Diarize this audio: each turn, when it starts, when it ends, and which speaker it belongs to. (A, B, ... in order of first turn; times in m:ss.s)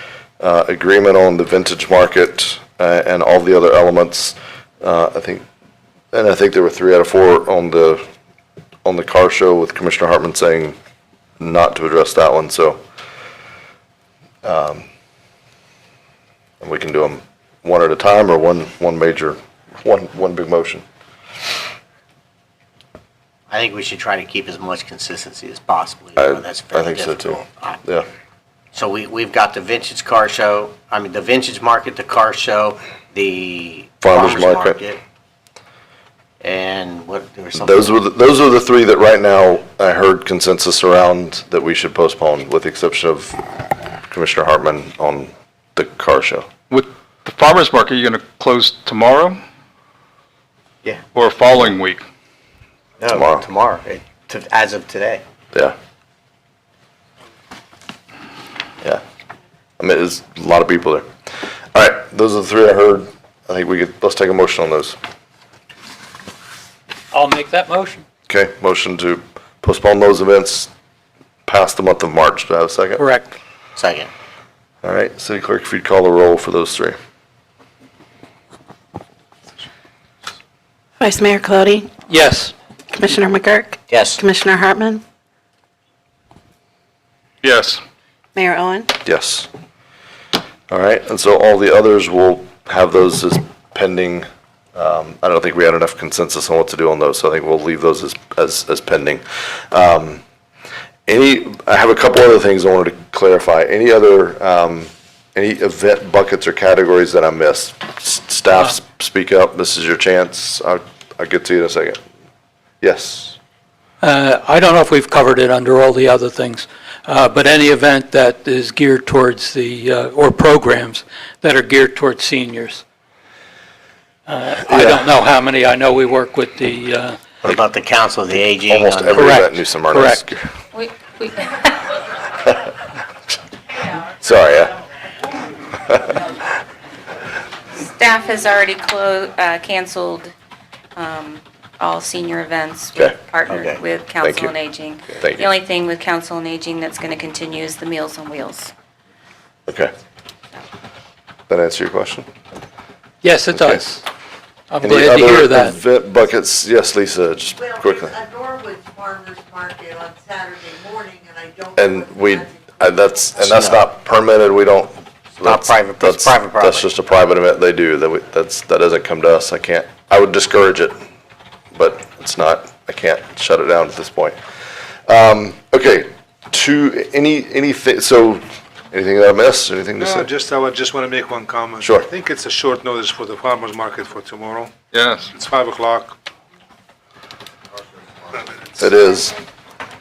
0:00.4-0:05.4 A
0:06.1-0:08.0 A
0:08.8-0:10.8 A
0:11.4-0:12.8 A
0:14.4-0:14.8 A
0:16.6-0:20.8 A
0:23.5-0:27.8 B
0:26.2-0:28.1 A
0:28.7-0:35.0 B
0:34.0-0:34.8 A
0:36.4-0:37.9 B
0:37.6-0:43.4 A
0:44.1-0:46.5 A
0:46.7-0:49.4 C
0:51.1-0:52.0 C
0:53.0-0:55.2 B
0:53.1-0:53.4 A
0:59.8-1:01.1 A
1:01.7-1:05.0 A
1:07.1-1:08.0 D
1:08.3-1:10.7 A
1:11.5-1:13.0 A
1:13.0-1:13.3 D
1:13.8-1:14.1 B
1:14.8-1:17.0 A
1:21.0-1:21.9 E
1:22.1-1:22.5 D
1:22.9-1:25.0 E
1:23.9-1:24.2 B
1:27.4-1:27.8 C
1:28.4-1:28.9 E
1:29.0-1:29.5 A
1:30.7-1:40.2 A
1:41.1-1:52.0 A
1:52.8-1:53.4 A
1:54.0-2:02.8 D
2:04.3-2:07.2 D
2:04.6-2:05.0 A
2:07.4-2:09.4 B
2:08.7-2:10.5 A
2:09.2-2:10.3 D
2:10.7-2:11.9 F
2:14.2-2:14.8 A
2:17.7-2:20.3 F
2:21.0-2:28.7 F
2:23.5-2:23.8 B
2:24.2-2:24.5 A
2:25.2-2:25.5 A
2:31.5-2:32.3 A
2:33.2-2:34.0 D
2:33.5-2:33.8 A
2:34.7-2:35.8 D
2:34.8-2:38.1 A
2:38.1-2:41.7 G
2:41.8-2:50.9 A
2:43.5-2:43.8 B
2:45.4-2:46.9 B
2:51.8-2:54.4 A
2:55.1-3:00.3 A
3:00.0-3:04.7 H
3:01.8-3:02.1 A
3:04.9-3:05.3 C
3:05.4-3:06.1 H
3:08.8-3:09.3 A